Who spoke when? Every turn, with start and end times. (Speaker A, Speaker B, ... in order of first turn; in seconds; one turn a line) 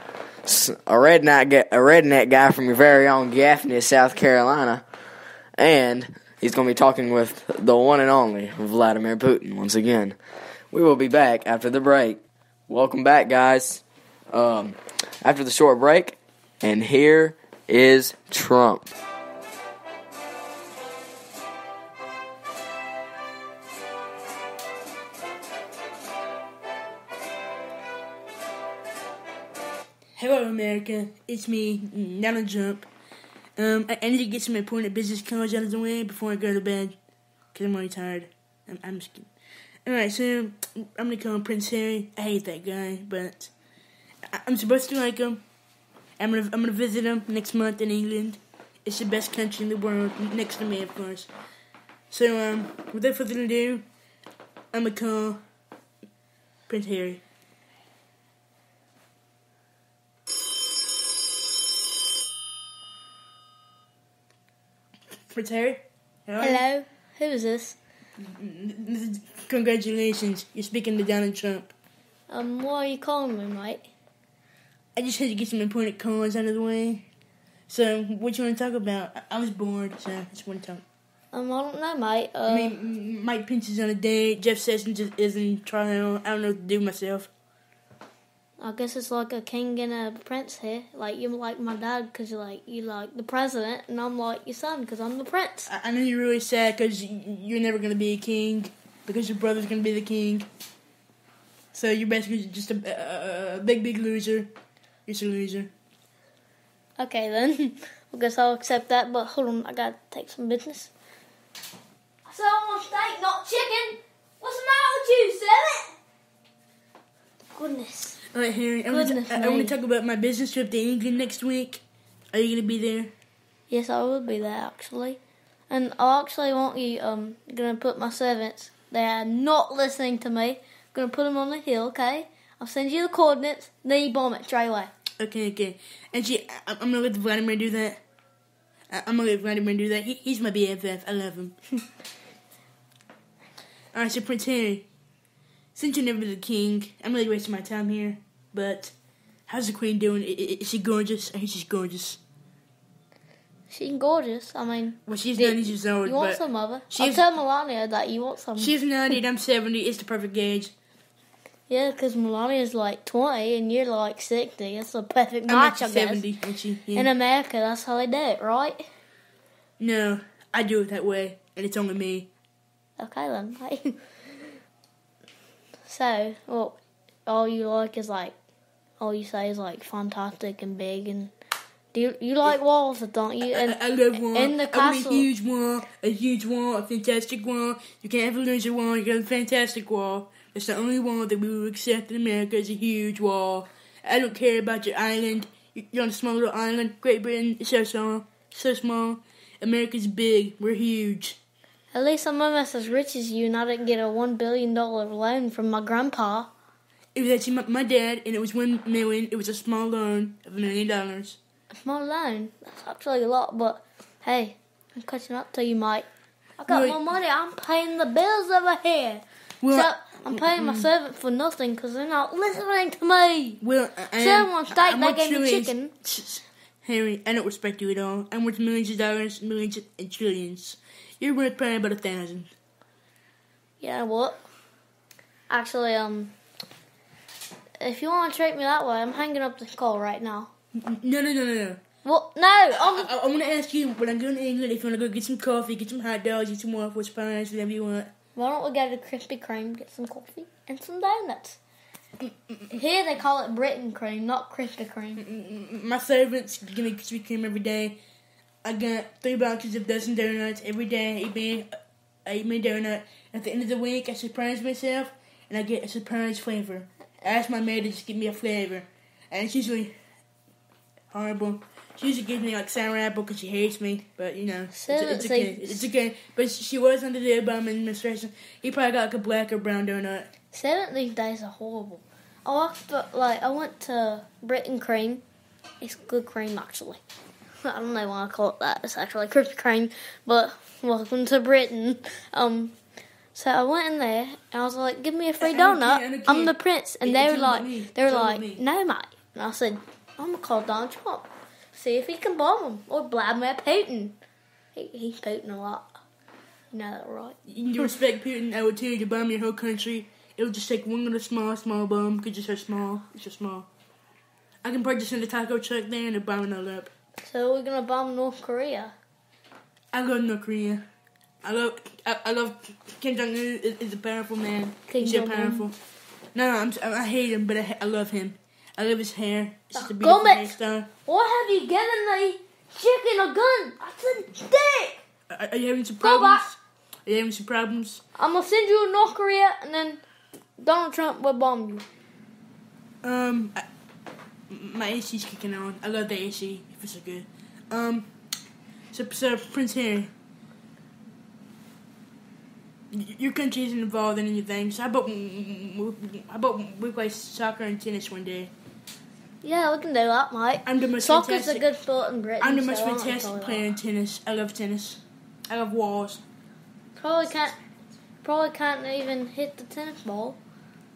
Speaker A: 0.5-4.8
Speaker A: 5.6-10.2
Speaker A: 10.7-18.9
Speaker B: 30.2-32.9
Speaker B: 33.6-37.0
Speaker B: 37.5-39.3
Speaker B: 39.9-43.5
Speaker B: 44.3-45.4
Speaker B: 46.2-51.3
Speaker B: 52.1-53.9
Speaker B: 54.7-55.4
Speaker B: 56.7-57.2
Speaker B: 65.3-66.7
Speaker C: 66.4-67.8
Speaker B: 68.2-71.7
Speaker C: 72.3-73.9
Speaker B: 75.0-77.0
Speaker B: 77.7-80.8
Speaker C: 81.3-82.7
Speaker B: 82.5-87.3
Speaker C: 88.6-95.7
Speaker B: 95.7-100.5
Speaker B: 101.7-104.5
Speaker B: 105.1-105.7
Speaker C: 107.0-110.9
Speaker C: 112.3-115.9
Speaker C: 117.5-118.2
Speaker B: 118.3-121.8
Speaker C: 118.9-119.8
Speaker B: 122.3-123.1
Speaker C: 123.7-134.9
Speaker B: 135.2-138.0
Speaker B: 138.9-141.6
Speaker B: 143.9-144.8
Speaker B: 145.8-148.9
Speaker B: 149.5-152.2
Speaker C: 153.7-158.7
Speaker B: 155.1-157.2
Speaker B: 158.6-160.7
Speaker C: 161.7-166.2
Speaker B: 165.5-167.1
Speaker C: 166.9-168.9
Speaker B: 169.8-172.3
Speaker C: 173.0-174.0
Speaker C: 175.9-176.8
Speaker C: 177.3-178.3
Speaker C: 179.0-181.3
Speaker C: 181.9-185.3
Speaker B: 183.5-201.4
Speaker C: 201.9-206.5
Speaker B: 207.2-211.4
Speaker C: 211.7-216.1
Speaker C: 216.6-223.6
Speaker B: 216.7-217.0
Speaker B: 219.6-220.9
Speaker B: 223.6-232.5
Speaker C: 224.2-225.9
Speaker C: 233.8-234.4
Speaker C: 235.5-236.3
Speaker C: 237.8-240.5
Speaker B: 240.8-241.8
Speaker C: 242.0-243.1
Speaker B: 242.8-248.1
Speaker C: 248.3-251.6
Speaker B: 252.2-252.8
Speaker C: 252.7-255.2
Speaker B: 255.2-258.0
Speaker B: 258.6-261.7
Speaker B: 262.3-269.9
Speaker B: 271.1-280.3
Speaker C: 274.7-275.9
Speaker C: 280.5-285.2
Speaker C: 285.8-287.0
Speaker C: 287.6-292.7
Speaker C: 293.3-304.2
Speaker B: 295.4-298.6
Speaker C: 304.7-305.9
Speaker C: 306.7-307.4
Speaker B: 307.5-313.7
Speaker B: 314.6-316.9
Speaker C: 317.2-318.9
Speaker B: 319.9-320.8
Speaker B: 321.4-325.8
Speaker C: 324.9-325.7
Speaker B: 326.3-330.9
Speaker C: 329.8-335.0
Speaker B: 335.3-338.0
Speaker C: 336.0-336.5
Speaker C: 338.2-340.0
Speaker C: 340.6-341.9
Speaker B: 343.0-343.6
Speaker B: 344.5-348.1
Speaker B: 348.9-350.1
Speaker B: 352.9-358.5
Speaker C: 359.4-363.7
Speaker B: 360.6-361.7
Speaker B: 362.4-366.2
Speaker C: 367.0-367.6
Speaker C: 368.2-370.4